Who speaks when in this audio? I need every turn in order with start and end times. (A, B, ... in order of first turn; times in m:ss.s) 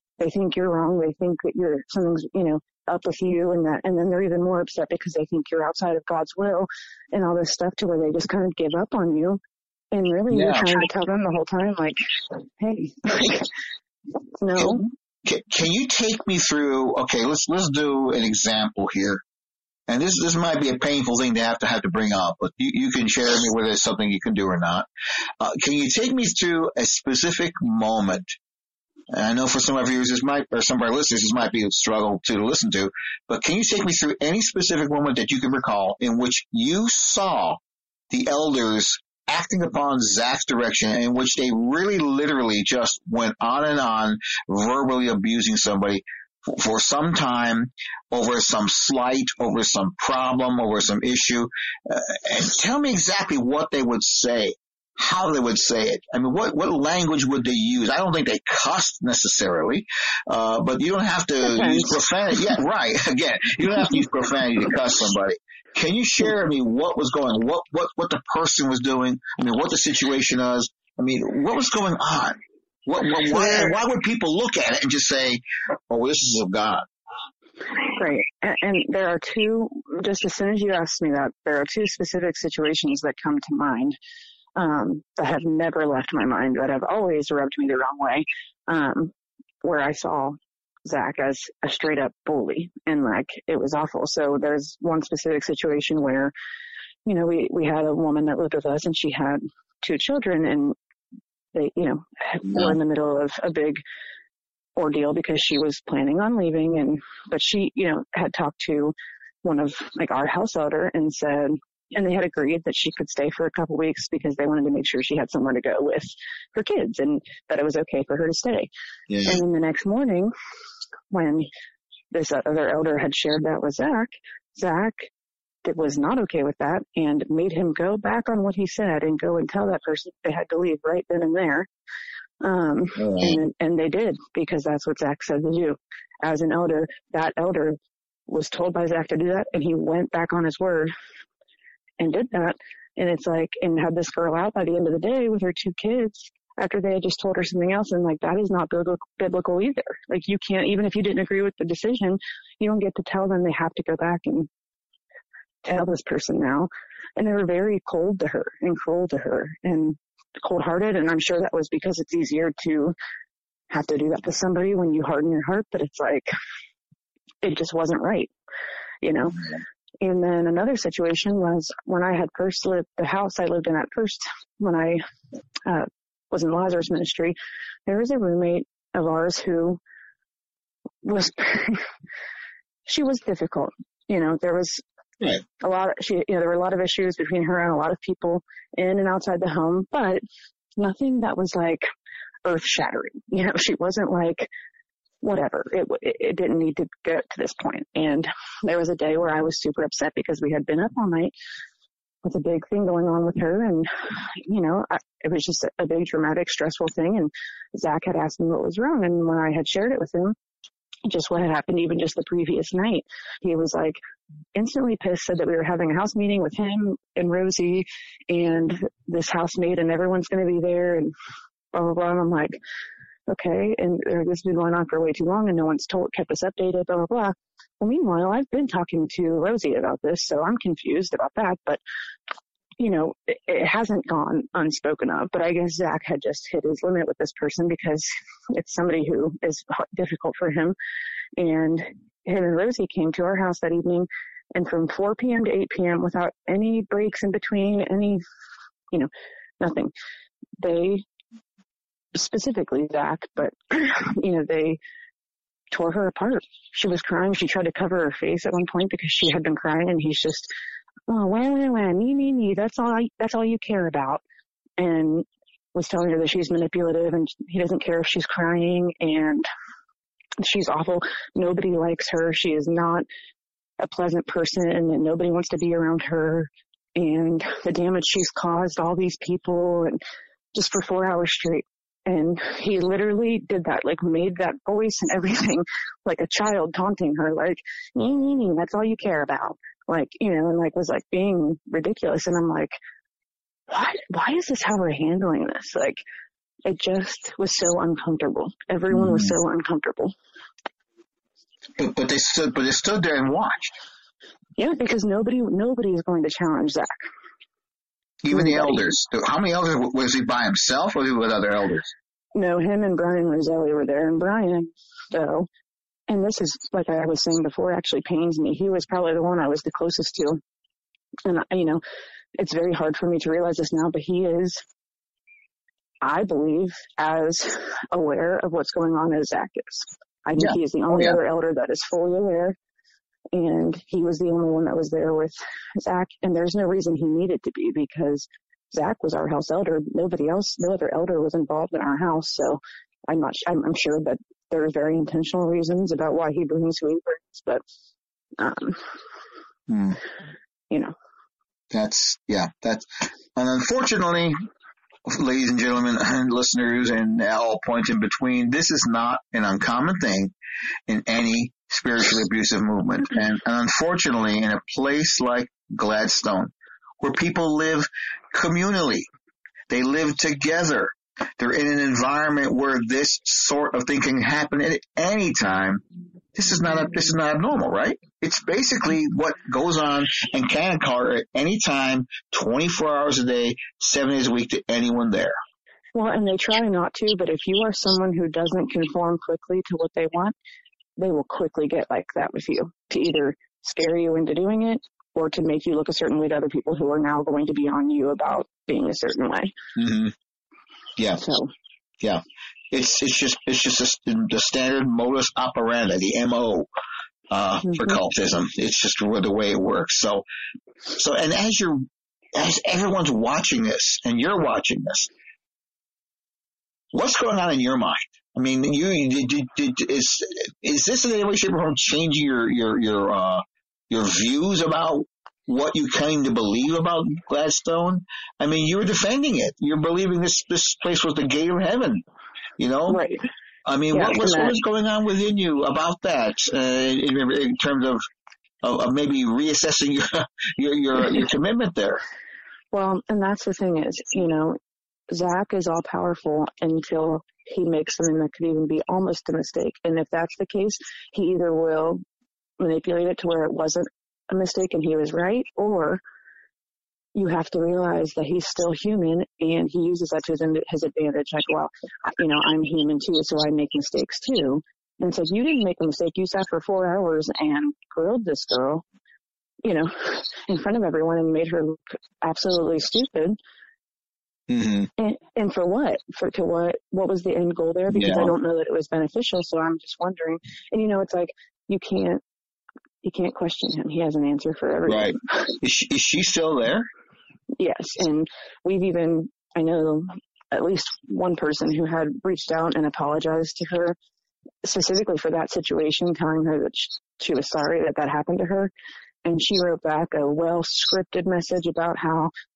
0:00.2-0:09.4 A
0:09.9-0:12.0 A
0:10.3-0:10.8 B
0:12.6-0:13.5 A
0:14.4-0:14.8 A
0:14.6-0:19.2 B
0:19.9-0:24.9 B
0:25.4-0:28.4 B
0:29.1-1:16.9 B
1:01.6-1:01.9 A
1:13.3-1:13.7 A
1:17.9-1:24.0 A
1:24.6-1:36.3 A
1:37.1-1:40.8 A
1:41.5-1:43.8 A
1:42.5-1:42.8 B
1:44.8-1:58.7 A
1:59.1-1:59.4 B
1:59.2-2:00.3 A
2:01.1-2:01.5 A
2:02.1-2:05.1 A
2:05.6-2:11.7 A
2:12.4-2:20.9 A
2:13.0-2:13.4 B
2:22.0-2:34.5 A
2:35.6-2:43.0 A
2:43.7-2:46.3 A
2:47.4-2:48.3 A
2:49.0-2:49.5 A
2:50.0-2:55.0 A
2:55.7-2:59.8 A
3:01.0-3:01.9 A
3:02.9-3:04.8 A
3:05.6-3:10.2 A
3:10.8-3:11.9 A
3:12.4-3:14.5 A
3:15.2-3:21.3 A
3:22.2-3:30.4 A
3:31.1-3:34.0 A
3:34.6-3:41.1 A
3:41.7-3:42.6 A
3:43.3-3:51.8 A
3:52.8-4:00.8 A
4:01.4-4:08.2 A
4:08.9-4:09.9 A
4:10.6-4:11.0 A
4:12.2-4:14.8 A
4:15.7-4:20.5 A
4:21.1-4:24.2 A
4:24.8-4:29.5 A
4:30.4-4:33.1 A
4:33.8-4:40.0 A
4:40.5-4:52.8 A
4:53.7-4:56.0 A
4:56.6-5:00.2 A
4:58.9-4:59.3 B
5:01.8-5:03.8 B
5:04.6-5:07.1 A
5:08.2-5:11.9 B
5:08.3-5:08.9 A
5:12.4-5:15.5 A
5:16.1-5:20.4 A
5:21.2-5:21.8 A
5:22.4-5:24.6 A
5:26.0-5:32.6 A
5:30.4-5:31.2 B
5:33.3-5:47.6 A
5:48.4-5:48.9 A
5:49.7-5:50.0 B
5:50.7-5:51.0 A
5:51.7-5:54.4 B
5:55.1-6:00.3 B
6:00.9-6:09.1 B
6:09.7-6:15.8 B
6:16.4-6:25.4 B
6:26.0-6:30.3 A
6:31.0-6:39.5 A
6:39.8-6:40.1 B
6:41.0-6:41.2 B
6:41.2-6:41.5 A
6:42.0-6:46.7 B
6:47.3-6:50.2 B
6:47.7-6:48.0 A
6:51.0-6:51.8 B
6:52.3-6:55.1 B
6:56.9-7:12.0 B
7:12.6-7:13.0 B
7:12.9-7:13.2 A
7:13.7-7:18.0 B
7:13.9-7:14.6 A
7:18.6-7:22.0 B
7:22.7-7:24.6 A
7:25.1-7:32.0 A
7:32.6-7:36.0 A
7:37.2-7:48.8 A
7:49.6-7:53.4 A
7:54.5-7:54.9 B
7:55.0-8:02.2 A
7:57.9-7:58.3 B
8:03.0-8:05.5 A
8:04.9-8:06.9 B
8:07.6-8:14.0 A
8:14.6-8:18.7 A
8:19.2-8:22.3 A